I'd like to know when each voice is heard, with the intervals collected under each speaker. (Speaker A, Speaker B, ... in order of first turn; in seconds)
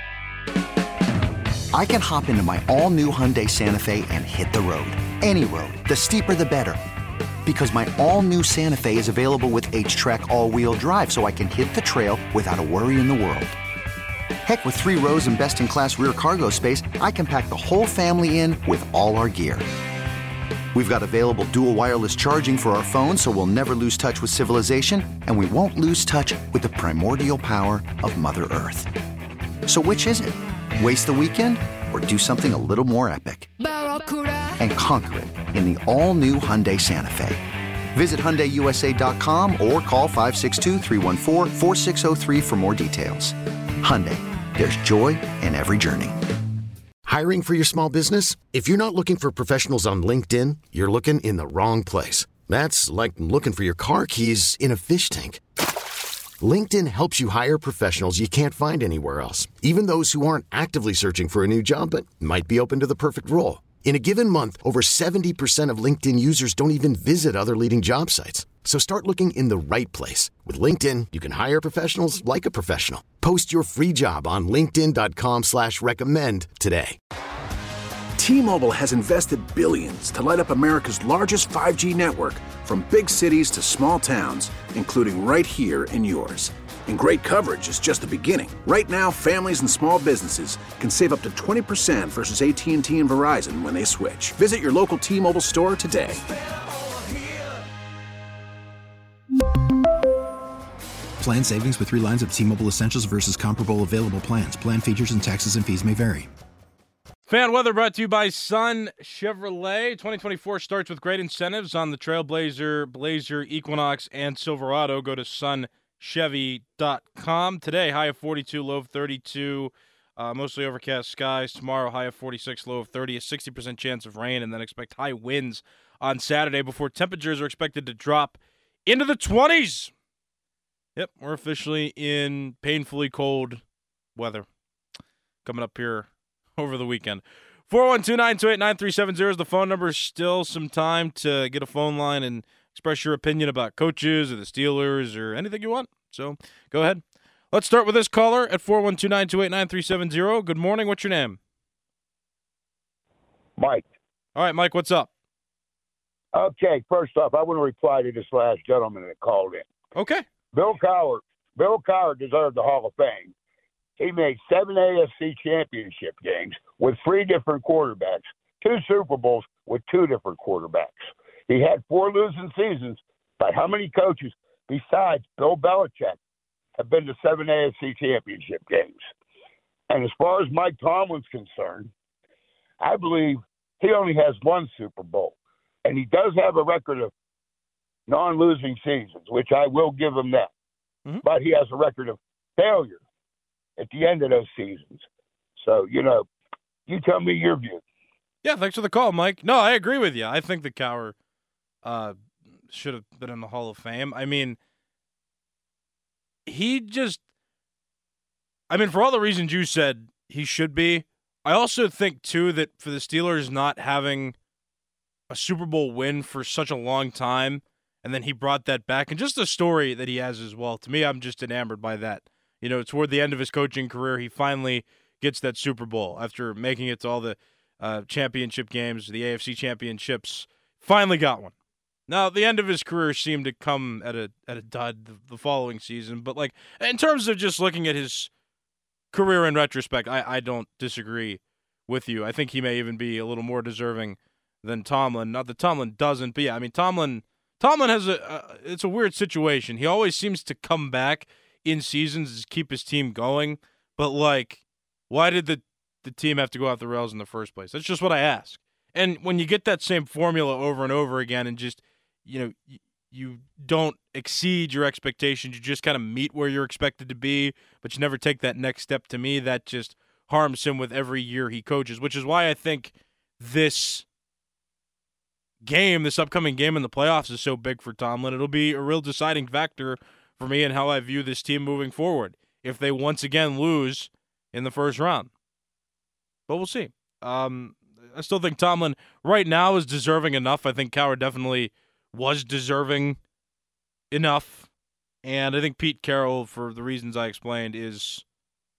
Speaker A: 1.7-6.8, 7.5-13.6, 14.4-19.7, 20.7-28.9, 29.7-33.5, 34.6-37.4, 38.0-46.2
Speaker B: 47.1-55.4, 56.4-77.0
Speaker C: 78.2-96.3
Speaker D: 101.2-106.3
Speaker E: 107.3-129.9, 131.0-133.6, 134.2-134.5, 135.4-151.4, 154.3-155.1, 159.9-160.2, 198.4-201.2, 201.8-202.2, 202.7-204.6, 206.5-207.2, 208.7-214.4, 215.3-231.5, 232.1-238.3, 239.1-274.1, 275.6-285.3, 286.5-293.2, 294.1-294.7, 295.2-298.2
Speaker F: 153.6-153.8, 156.3-159.7, 160.5-163.3, 164.0-176.2, 176.8-179.0, 179.9-181.9, 182.8-187.1, 188.1-190.5, 191.2-193.0, 193.8-195.1, 195.6-196.3, 196.9-197.8